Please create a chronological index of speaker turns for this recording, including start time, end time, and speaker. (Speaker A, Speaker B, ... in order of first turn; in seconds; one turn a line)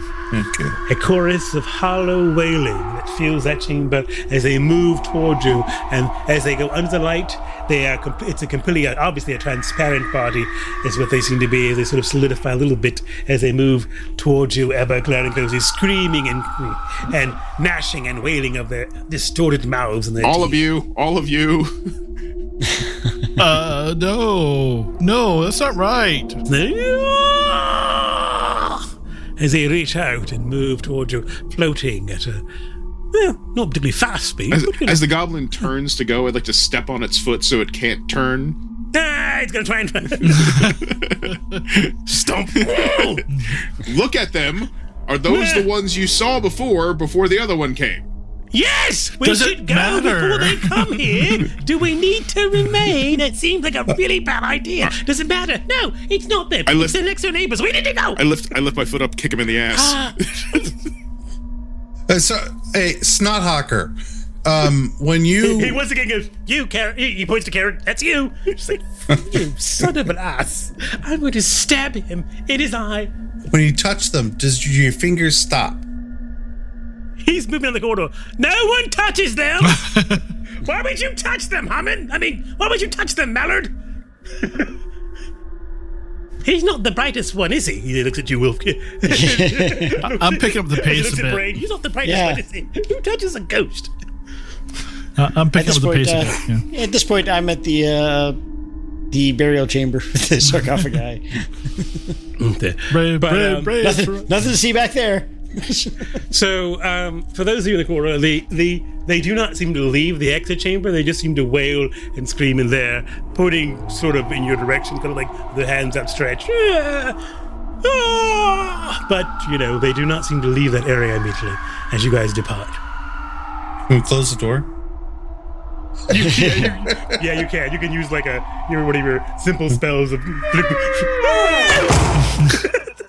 Speaker A: 0.3-0.8
Speaker B: 0.9-20.6
Speaker C: 20.2-21.7
Speaker D: 22.7-23.3
Speaker E: 23.4-26.4
Speaker B: 26.5-28.9
Speaker B: 29.4-32.4
Speaker B: 33.1-35.1
Speaker C: 34.5-38.6
Speaker B: 38.9-40.8
Speaker E: 40.3-40.8
Speaker C: 40.9-41.9
Speaker B: 42.1-43.3
Speaker C: 42.6-43.1
Speaker E: 43.3-43.6
Speaker C: 43.8-48.0
Speaker B: 45.3-45.7
Speaker B: 48.5-58.2
Speaker E: 49.2-51.4
Speaker C: 56.7-57.0
Speaker C: 58.2-60.7
Speaker B: 59.7-60.7
Speaker A: 62.1-65.8
Speaker B: 65.4-73.1
Speaker A: 69.1-69.9
Speaker A: 73.5-75.8
Speaker B: 77.2-79.9
Speaker E: 79.7-80.2
Speaker B: 80.6-83.7
Speaker B: 84.4-84.7
Speaker B: 86.4-93.9
Speaker D: 89.0-90.0
Speaker E: 90.0-91.6
Speaker D: 92.0-92.4
Speaker E: 95.2-96.6
Speaker D: 95.5-98.4
Speaker D: 99.1-102.2
Speaker B: 102.4-103.8
Speaker E: 102.9-104.3
Speaker D: 103.8-106.2
Speaker B: 106.3-117.2
Speaker B: 117.8-122.8
Speaker A: 123.9-124.7
Speaker B: 126.1-132.9
Speaker A: 126.2-127.2